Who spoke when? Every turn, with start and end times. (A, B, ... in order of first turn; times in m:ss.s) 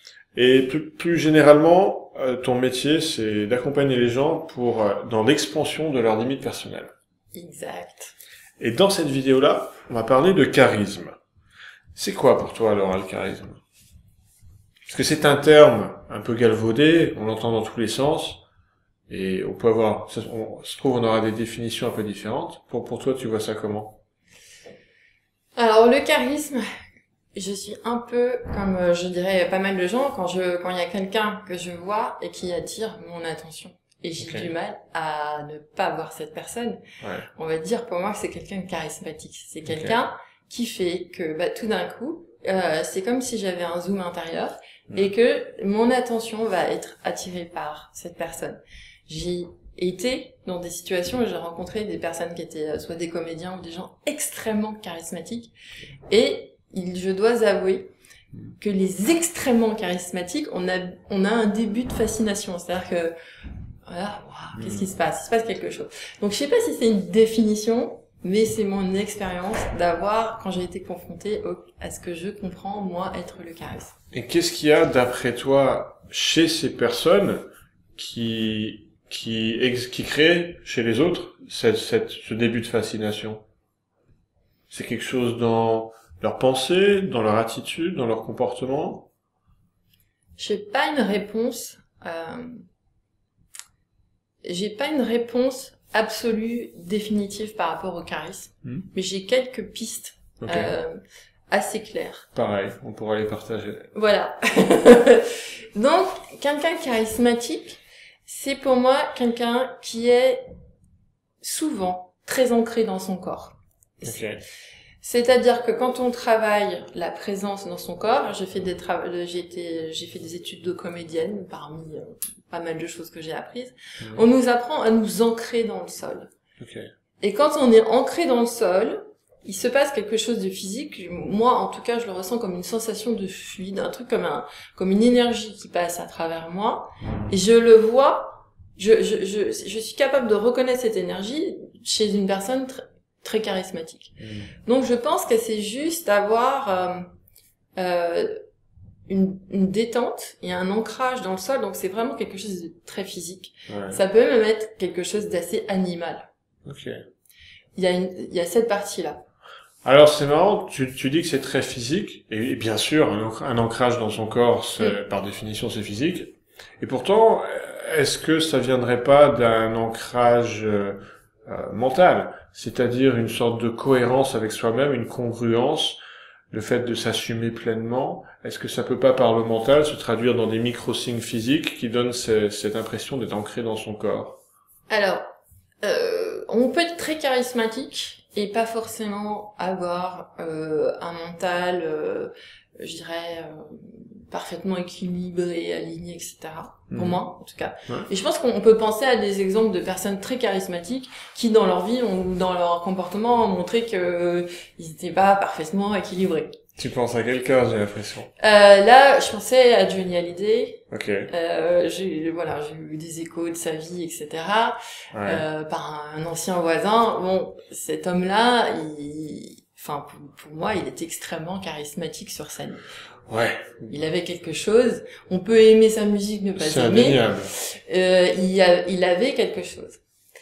0:00.3-0:06.9 A
0:07.3-0:08.1 B
0:08.6-0:11.2 A
0:11.9-0:13.6 A
0:14.9-0:18.4 A
0:19.1-0:24.0 A
0:25.6-0:26.6 B
0:27.3-0:36.8 B
0:34.2-0:34.5 A
0:37.0-0:37.3 A
0:37.4-0:55.5 B
0:39.7-0:40.0 A
0:56.1-0:57.9 B
0:58.6-1:03.1 B
1:03.9-1:13.9 B
1:04.6-1:04.9 A
1:14.1-1:23.4 A
1:24.7-1:29.1 A
1:30.4-1:32.6 B
1:34.4-1:41.0 B
1:40.4-1:40.7 A
1:41.5-1:42.3 B
1:42.3-1:43.9 A
1:43.9-1:50.5 B
1:51.4-1:54.2 B
1:54.0-1:54.4 A
1:55.0-2:06.3 B
2:06.6-2:06.9 A
2:07.2-2:24.1 B
2:17.0-2:17.3 A
2:24.2-2:24.5 A
2:24.6-2:27.1 B
2:27.8-2:28.4 B
2:29.1-2:36.3 B
2:33.7-2:34.0 A
2:36.6-2:37.0 A
2:37.8-2:39.2 B
2:39.8-2:56.0 A
2:56.5-3:04.4 A
3:04.9-3:26.6 B
3:16.9-3:17.2 A
3:26.8-3:28.3 A
3:28.4-3:42.8 B
3:30.9-3:31.3 A
3:35.1-3:35.4 A
3:43.3-3:43.9 A
3:43.9-3:50.0 B
3:46.6-3:47.5 A